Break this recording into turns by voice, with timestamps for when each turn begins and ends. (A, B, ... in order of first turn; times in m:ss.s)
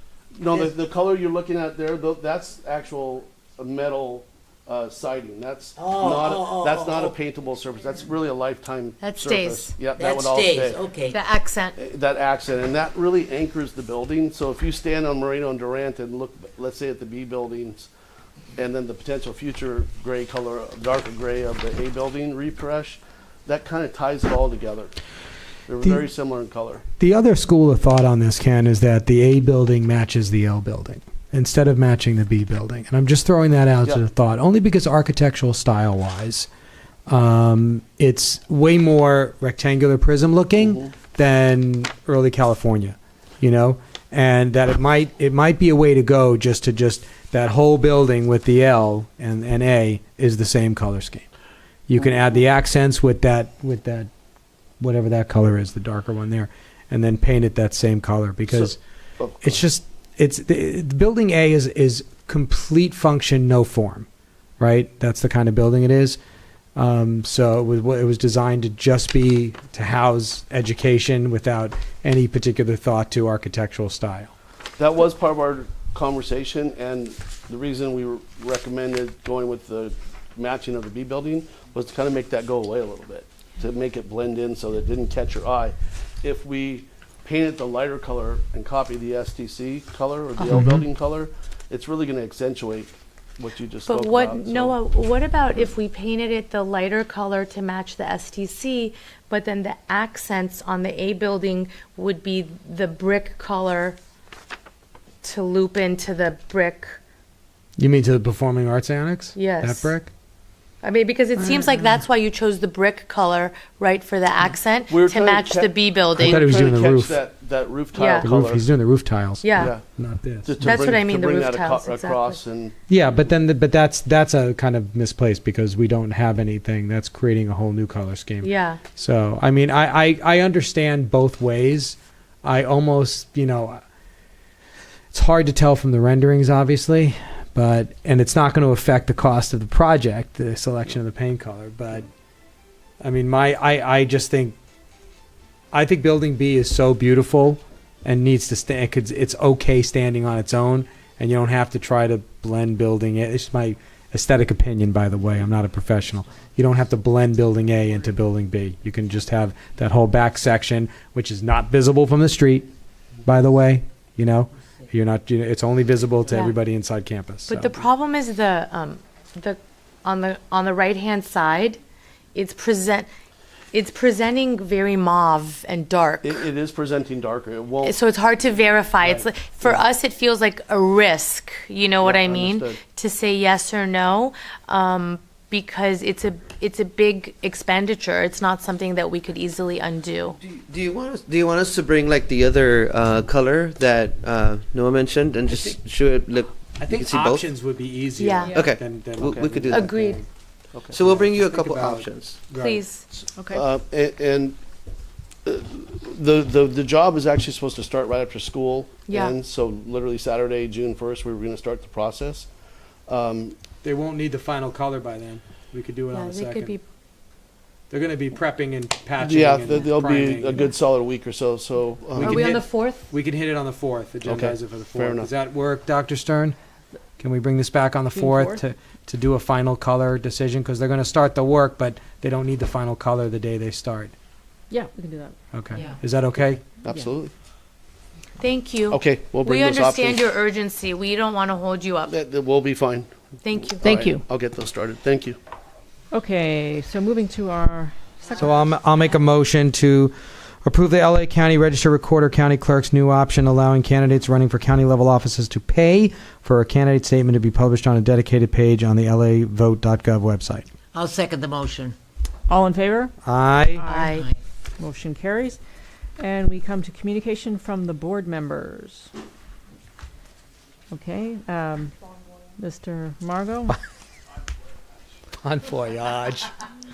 0:00.4-0:10.8 A
0:00.5-0:00.8 B
0:05.8-0:07.2 B
0:09.0-0:09.8 C
0:10.0-0:11.2 B
0:11.1-0:11.8 C
0:11.8-0:17.9 A
0:18.6-0:24.9 A
0:25.7-0:26.8 A
0:27.0-0:36.5 D
0:37.1-0:51.3 D
0:40.6-0:40.9 A
0:51.9-0:54.1 D
0:54.8-0:58.8 D
0:58.5-0:59.6 A
0:59.4-1:04.1 D
1:04.6-1:06.2 D
1:06.8-1:14.3 D
1:14.8-1:34.8 A
1:30.4-1:30.7 C
1:33.9-1:44.0 C
1:45.2-1:47.0 C
1:47.8-1:50.1 D
1:49.4-1:49.9 C
1:50.8-1:56.7 C
1:54.9-1:58.6 A
1:56.2-1:57.2 D
1:58.0-1:58.3 C
1:58.2-2:00.8 D
1:59.4-1:59.7 C
1:59.6-1:59.8 A
2:00.4-2:02.8 A
2:00.6-2:02.4 C
2:02.9-2:13.8 D
2:08.4-2:08.8 C
2:15.1-2:22.1 D
2:23.0-2:24.6 D
2:25.7-2:42.7 D
2:43.2-2:47.8 D
2:46.3-2:46.6 C
2:47.5-2:51.8 C
2:52.4-2:53.1 C
2:53.7-2:56.4 C
2:56.2-2:57.9 A
2:57.8-3:10.4 C
2:59.0-2:59.8 A
3:02.0-3:02.8 A
3:10.4-3:17.5 E
3:16.8-3:20.3 D
3:18.2-3:18.6 C
3:18.5-3:20.2 E
3:19.7-3:20.2 C
3:20.9-3:22.8 D
3:20.9-3:22.4 E
3:22.6-3:23.0 C
3:23.4-3:23.6 F
3:23.5-3:24.6 A
3:25.5-3:32.5 A
3:29.1-3:29.4 C
3:33.1-3:33.6 A
3:33.8-3:36.8 D
3:36.1-3:36.8 C
3:37.9-3:40.7 D
3:39.2-3:42.5 A
3:42.1-3:46.6 D
3:42.2-3:43.1 C
3:44.2-3:45.3 A
3:47.2-3:54.1 D
3:48.1-3:48.6 F
3:54.7-3:55.4 F
3:55.5-3:56.6 D
3:56.8-3:57.3 A
3:58.4-4:02.1 C
3:58.9-4:00.3 A
4:02.1-4:05.4 A
4:03.4-4:04.1 C
4:03.8-4:04.2 F
4:06.1-4:08.5 F
4:08.4-4:20.7 D
4:20.9-4:22.0 B
4:22.5-4:23.1 F
4:23.2-4:23.9 D
4:23.8-4:24.1 F
4:23.9-4:24.3 C
4:24.0-4:24.4 B
4:24.8-4:25.6 F
4:26.2-4:29.1 F
4:30.9-4:32.0 F
4:32.6-4:33.8 F
4:35.4-4:36.6 D